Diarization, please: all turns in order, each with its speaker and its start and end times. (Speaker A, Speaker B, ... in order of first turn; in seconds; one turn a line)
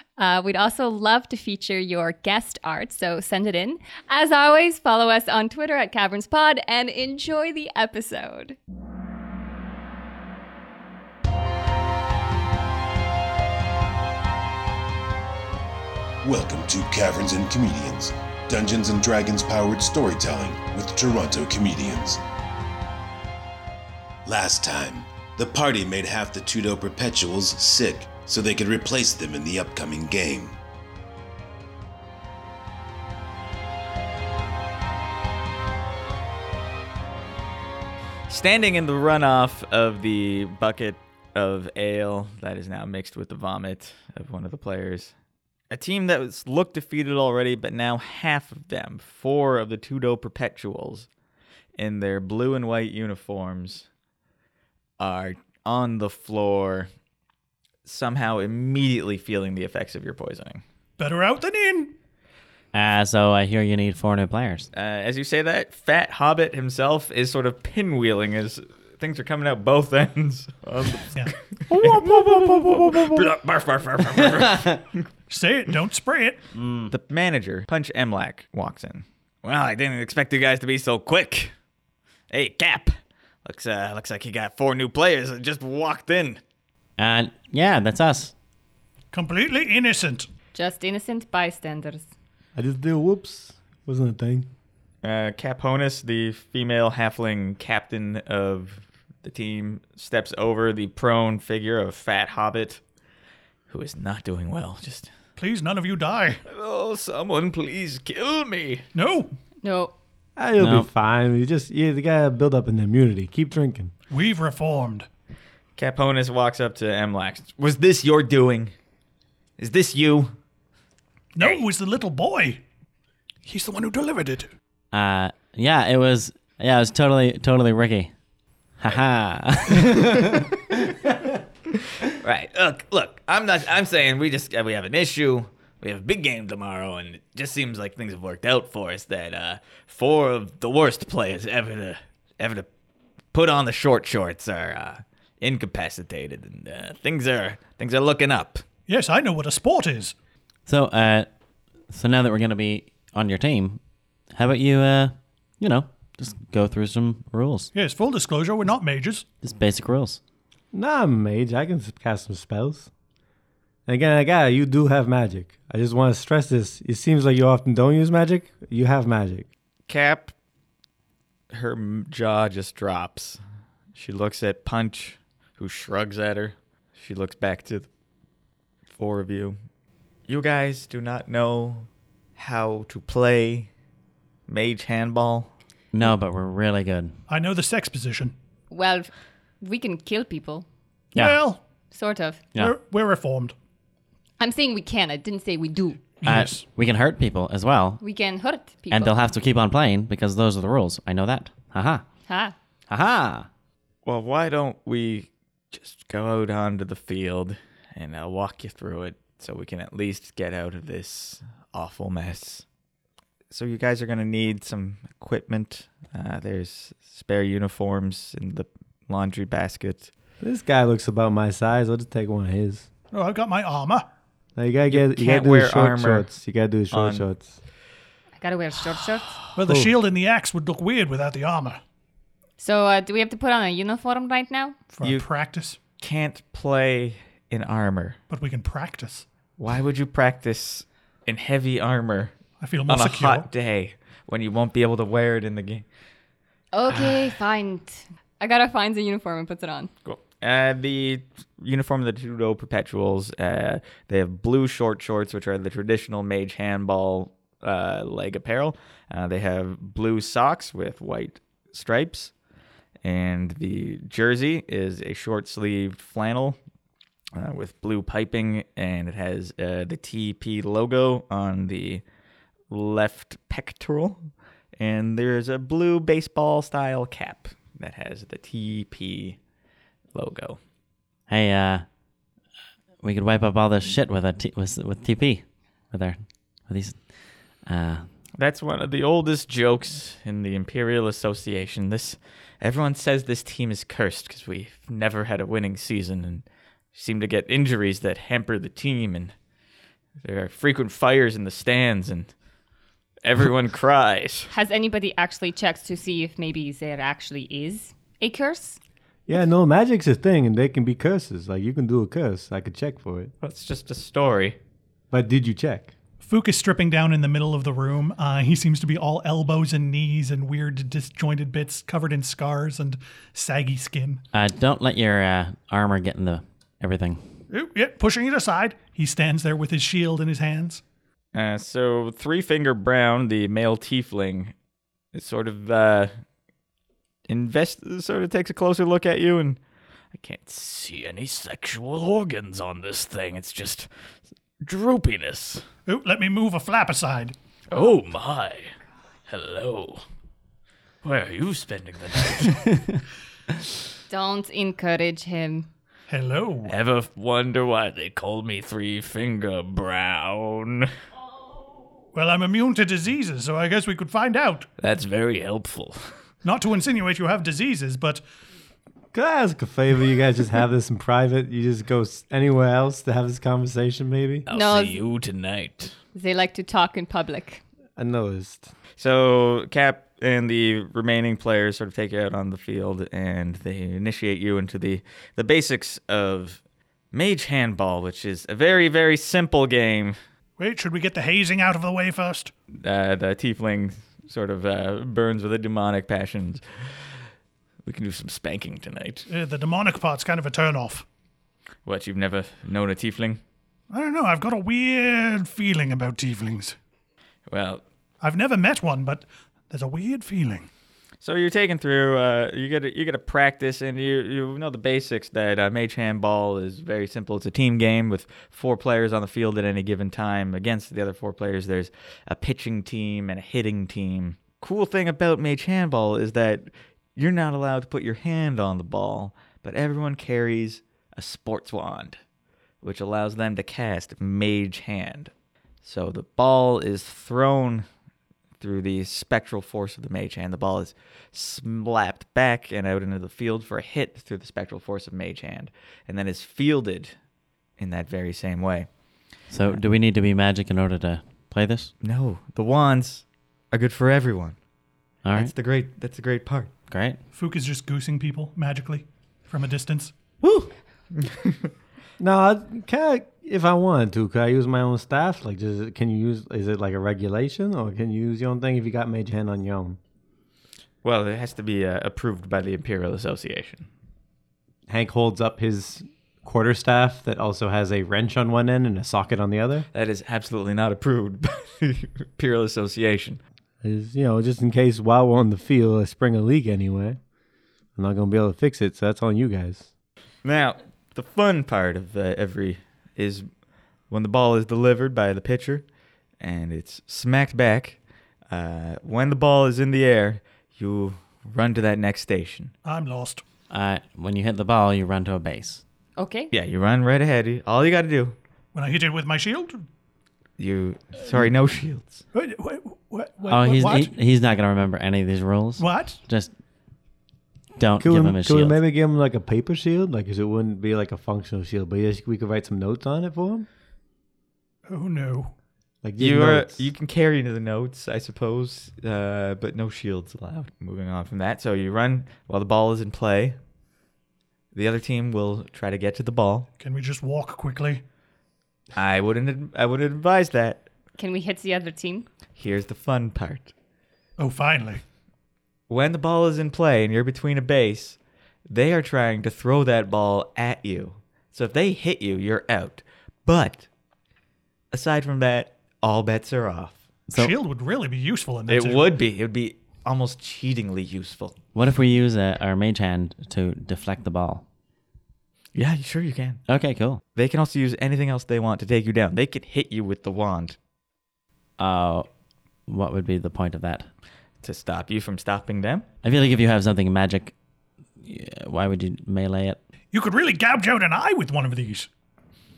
Speaker A: 0.2-8.6
Speaker B: 16.2-22.2
Speaker B: 24.2-30.6
Speaker C: 38.3-45.1
Speaker C: 45.7-51.1
Speaker C: 51.8-53.9
Speaker C: 55.0-56.9
Speaker C: 57.8-60.6
Speaker D: 61.0-62.0
Speaker E: 62.7-64.7
Speaker C: 64.7-75.0
Speaker E: 71.7-73.2
Speaker E: 74.2-74.7
Speaker D: 75.3-76.4
Speaker E: 76.5-76.9
Speaker C: 76.9-81.5
Speaker C: 82.3-86.4
Speaker E: 87.0-88.3
Speaker D: 89.1-90.3
Speaker A: 90.5-92.1
Speaker F: 92.5-94.5
Speaker C: 95.0-102.8
Speaker C: 103.7-105.1
Speaker D: 105.4-106.4
Speaker C: 106.5-108.8
Speaker D: 108.9-109.3
Speaker A: 109.6-109.9
Speaker F: 110.4-113.9
Speaker E: 110.6-110.9
Speaker D: 114.1-115.1
Speaker C: 115.8-118.7
Speaker C: 119.6-120.3
Speaker D: 121.3-122.6
Speaker D: 123.4-124.5
Speaker E: 124.9-128.1
Speaker E: 128.8-131.1
Speaker C: 129.9-130.4
Speaker C: 132.1-142.7
Speaker C: 143.3-148.6
Speaker D: 148.9-150.1
Speaker E: 150.7-151.3
Speaker E: 151.9-153.8
Speaker E: 154.3-157.7
Speaker D: 157.7-159.2
Speaker E: 159.4-160.2
Speaker F: 160.7-162.9
Speaker F: 163.8-169.4
Speaker C: 169.9-170.3
Speaker C: 171.5-173.4
Speaker C: 173.9-177.9
Speaker C: 178.9-179.6
Speaker C: 180.3-183.7
Speaker C: 184.5-185.5
Speaker E: 185.9-187.1
Speaker D: 187.3-188.3
Speaker A: 188.7-189.1
Speaker A: 189.6-190.7
Speaker D: 191.1-191.6
Speaker A: 191.9-192.4
Speaker D: 192.6-193.5
Speaker A: 194.4-196.0
Speaker D: 196.2-196.6
Speaker E: 196.2-198.0
Speaker A: 198.0-199.2
Speaker E: 198.9-202.0
Speaker A: 202.3-202.5
Speaker E: 202.9-203.5
Speaker C: 204.0-212.6
Speaker C: 213.5-220.1
Speaker F: 220.4-222.9
Speaker D: 223.1-224.1
Speaker F: 224.6-227.6
Speaker C: 224.9-226.3
Speaker C: 226.9-227.2
Speaker A: 228.4-229.4
Speaker D: 229.6-231.8
Speaker F: 229.7-229.9
Speaker A: 232.6-234.8
Speaker D: 234.9-235.8
Speaker C: 236.0-238.2
Speaker D: 238.3-239.2
Speaker C: 239.6-242.3
Speaker D: 242.6-243.5
Speaker C: 242.9-245.8
Speaker A: 246.7-249.9
Speaker C: 250.0-262.3
Speaker C: 263.0-266.6
Speaker C: 267.3-272.0
Speaker C: 272.7-279.4
Speaker C: 280.1-280.6
Speaker E: 281.3-281.8
Speaker E: 283.0-287.0
Speaker E: 287.6-288.0
Speaker C: 288.4-299.3
Speaker C: 300.2-302.3
Speaker C: 303.2-304.5
Speaker A: 304.5-308.8
Speaker F: 309.3-313.3
Speaker C: 313.4-314.6
Speaker F: 315.1-315.9
Speaker D: 316.2-324.2
Speaker E: 324.3-327.2
Speaker D: 327.5-330.8
Speaker C: 331.3-334.5
Speaker C: 335.1-336.1
Speaker C: 337.3-339.6
Speaker C: 340.1-343.9
Speaker C: 344.6-345.6
Speaker D: 345.9-347.3
Speaker C: 347.7-348.7
Speaker C: 349.3-350.0
Speaker C: 351.0-352.8
Speaker E: 352.7-353.0
Speaker A: 354.1-355.7
Speaker D: 356.1-356.7
Speaker C: 356.7-360.9
Speaker D: 362.1-364.7
Speaker C: 364.8-366.1
Speaker D: 366.4-368.2
Speaker F: 369.1-374.4
Speaker C: 374.5-375.9
Speaker A: 374.5-375.0
Speaker A: 376.1-377.6
Speaker F: 378.0-378.7
Speaker C: 379.0-386.6
Speaker C: 387.1-390.2
Speaker D: 390.6-392.5
Speaker C: 392.8-396.6
Speaker C: 397.8-399.3
Speaker D: 399.3-401.1
Speaker C: 401.9-403.4
Speaker D: 403.9-406.8
Speaker C: 407.5-407.8
Speaker D: 408.2-410.7
Speaker C: 411.2-432.2
Speaker C: 432.8-435.3
Speaker C: 435.8-437.9
Speaker C: 438.6-447.1
Speaker C: 447.8-448.9
Speaker E: 449.5-451.9
Speaker C: 452.0-454.6
Speaker E: 455.2-455.5
Speaker C: 455.3-456.7
Speaker E: 456.9-457.2
Speaker D: 457.3-460.1
Speaker E: 460.4-460.7
Speaker C: 461.1-461.7
Speaker F: 462.2-470.0
Speaker C: 471.0-473.9
Speaker F: 474.9-479.9
Speaker C: 479.9-483.4
Speaker F: 483.8-487.2
Speaker F: 487.9-489.9
Speaker C: 490.4-493.5
Speaker C: 494.1-495.9
Speaker C: 496.4-498.0
Speaker C: 498.5-502.7
Speaker D: 502.8-503.4
Speaker E: 503.7-505.8
Speaker A: 506.2-506.5
Speaker C: 506.5-508.4
Speaker D: 508.7-509.8
Speaker C: 510.6-512.2
Speaker D: 512.3-514.1
Speaker E: 513.5-516.5
Speaker D: 515.8-516.2
Speaker E: 517.8-518.8
Speaker F: 518.0-523.6
Speaker D: 524.9-525.5
Speaker F: 526.0-526.9
Speaker C: 526.2-533.6
Speaker C: 534.7-536.7
Speaker D: 536.8-538.0
Speaker C: 538.9-540.9
Speaker A: 541.2-542.3
Speaker C: 542.5-543.7
Speaker D: 544.4-545.0
Speaker C: 545.9-553.9
Speaker C: 554.9-557.0
Speaker D: 557.3-559.1
Speaker C: 558.7-561.6
Speaker E: 561.7-564.6
Speaker C: 565.7-566.6
Speaker E: 566.7-567.2
Speaker C: 567.3-570.8
Speaker E: 571.8-572.3
Speaker E: 572.9-574.1
Speaker C: 574.6-576.0
Speaker E: 576.2-577.5
Speaker E: 578.2-579.8
Speaker D: 580.1-582.1